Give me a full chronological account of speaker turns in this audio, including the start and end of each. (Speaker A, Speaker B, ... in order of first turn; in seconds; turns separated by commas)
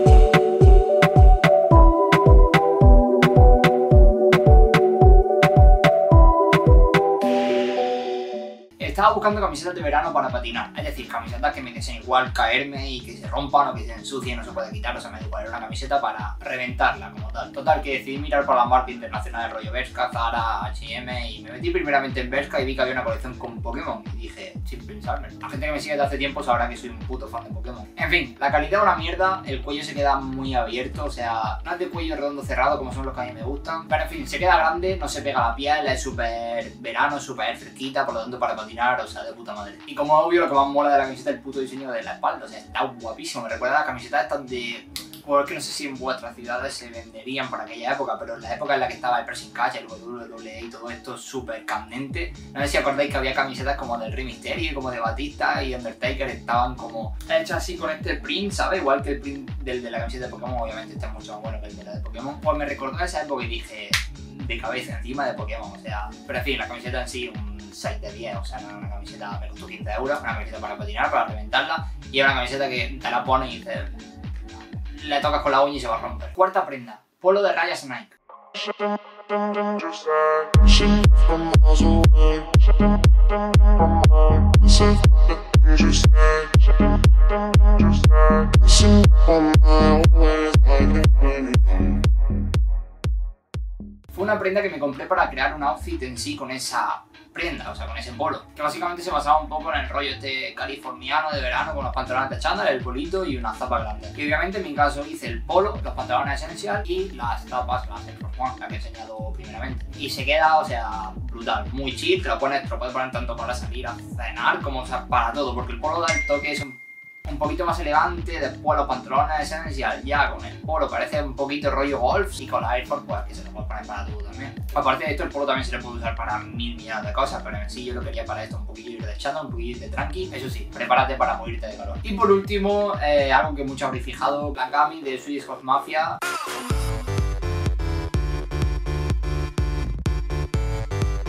Speaker A: 8.8-74.1, Speaker A: 74.7-78.1, Speaker A: 94.1-136.2